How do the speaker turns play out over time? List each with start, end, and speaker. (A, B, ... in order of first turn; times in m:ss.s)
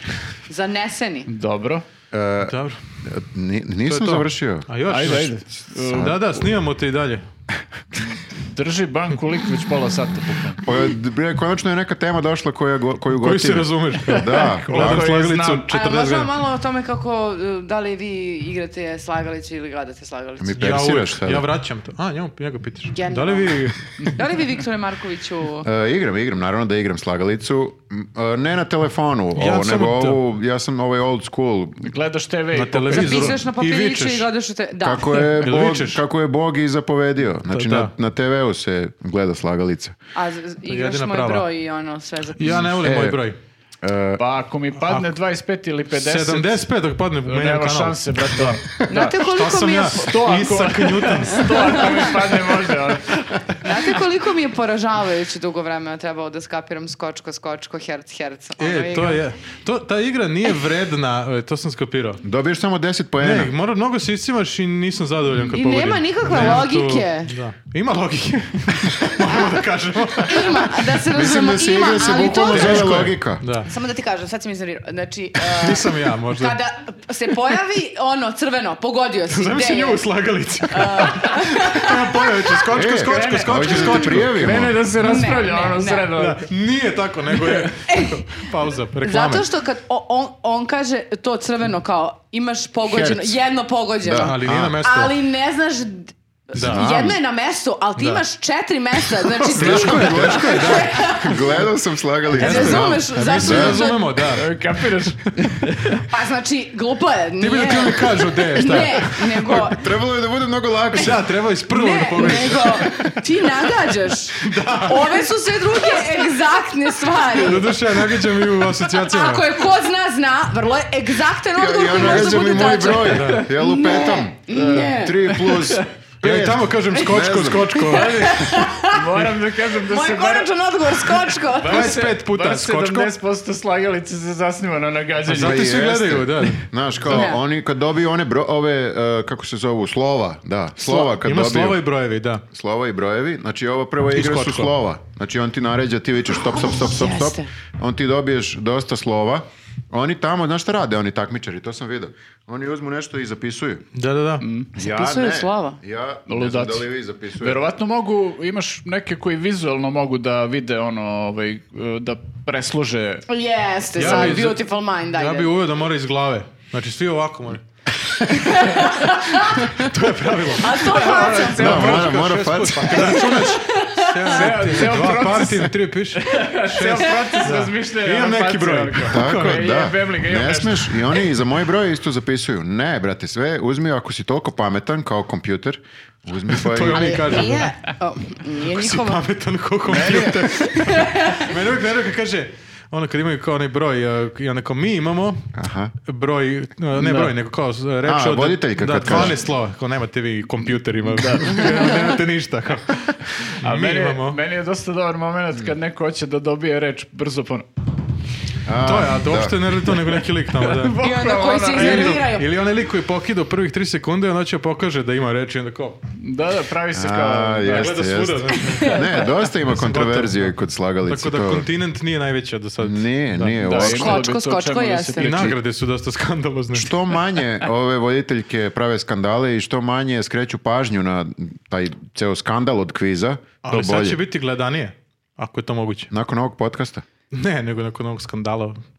0:00.5-0:01.3 A
0:01.3-0:01.8 B
0:02.1-0:06.5 C
0:02.4-0:02.8 D
0:03.9-0:05.4 D
0:04.8-0:06.2 B
0:05.9-0:07.3 D
0:08.5-0:10.6 B
0:10.6-0:15.1 C
0:13.1-0:16.3 D
0:14.1-0:15.7 B
0:15.7-0:20.8 A
0:20.4-0:21.4 C
0:20.6-0:24.2 D
0:22.9-0:25.7 A
0:25.6-0:31.9 C
0:29.4-0:30.2 D
0:31.8-0:33.4 B
0:32.5-0:34.3 D
0:32.9-0:35.4 A
0:34.8-0:40.0 C
0:35.4-0:36.0 D
0:37.5-0:37.9 D
0:40.1-0:42.7 A
0:40.7-0:41.5 D
0:42.4-0:43.4 D
0:42.8-0:43.2 C
0:43.8-0:44.2 C
0:44.2-0:46.7 B
0:44.8-0:45.1 D
0:45.9-0:52.0 D
0:47.2-0:48.8 B
0:48.9-0:50.3 A
0:49.9-0:53.2 B
0:51.4-0:52.1 A
0:53.6-0:59.2 A
0:58.6-1:02.2 D
1:02.2-1:03.5 C
1:03.2-1:10.9 D
1:05.4-1:07.3 A
1:10.3-1:13.0 A
1:11.1-1:13.4 C
1:12.3-1:13.7 D
1:13.7-1:20.0 A
1:15.4-1:16.6 D
1:19.3-1:24.6 D
1:20.7-1:22.6 A
1:22.7-1:24.8 C
1:23.0-1:26.5 B
1:25.0-1:26.1 A
1:26.1-1:29.4 D
1:27.8-1:28.4 A
1:29.0-1:41.6 A
1:32.8-1:33.4 C
1:34.0-1:34.8 C
1:34.2-1:35.1 D
1:36.6-1:36.9 D
1:36.6-1:37.2 C
1:38.0-1:38.2 D
1:39.2-1:41.0 D
1:39.5-1:43.9 C
1:42.3-1:44.3 A
1:42.3-1:44.5 D
1:44.2-1:46.0 B
1:46.1-1:49.9 A
1:47.4-1:49.7 D
1:49.5-1:51.3 C
1:50.9-1:53.2 D
1:51.7-1:57.8 A
1:54.4-1:55.3 D
1:57.2-1:59.5 D
1:58.7-2:05.4 A
2:01.6-2:08.0 C
2:03.0-2:03.5 D
2:04.5-2:05.9 B
2:06.2-2:08.5 D
2:07.7-2:09.1 A
2:07.9-2:08.3 B
2:08.8-2:15.8 B
2:09.6-2:12.0 A
2:11.6-2:13.1 D
2:15.2-2:17.1 D
2:15.3-2:21.8 C
2:17.1-2:17.4 A
2:20.9-2:22.4 D
2:22.5-2:33.9 C
2:24.1-2:24.7 D
2:26.6-2:27.5 A
2:34.0-2:34.4 D
2:34.4-2:34.7 B
2:34.8-2:35.8 A
2:34.8-2:37.6 C
2:36.3-2:43.3 B
2:43.3-2:45.5 A
2:44.0-2:44.5 B
2:44.0-2:47.6 D
2:48.3-2:49.9 A
2:48.8-2:59.6 D
2:50.5-2:52.0 A
2:50.8-2:52.2 B
2:51.6-2:53.6 C
2:52.9-2:54.7 A
2:54.3-3:01.2 B
2:59.0-3:07.4 C
3:06.5-3:07.7 D
3:06.9-3:09.2 A
3:08.6-3:15.5 D
3:09.9-3:10.6 B
3:10.6-3:11.4 A
3:15.6-3:16.0 C
3:16.0-3:24.4 D
3:17.0-3:17.4 B
3:18.0-3:19.4 C
3:21.0-3:21.8 B
3:23.6-3:27.7 B
3:28.7-3:29.7 C
3:28.8-3:31.0 D
3:30.5-3:32.2 B
3:31.0-3:32.5 A
3:31.7-3:36.0 D
3:36.2-3:38.0 B
3:36.9-3:41.7 C
3:37.7-3:40.5 D
3:38.6-3:39.3 A
3:41.1-3:43.6 D
3:42.8-3:44.2 C
3:43.6-3:45.6 B
3:43.8-3:45.5 A
3:45.2-3:47.0 D
3:46.7-3:54.2 C
3:53.6-3:56.1 D
3:56.1-3:57.0 C
3:57.3-3:58.8 D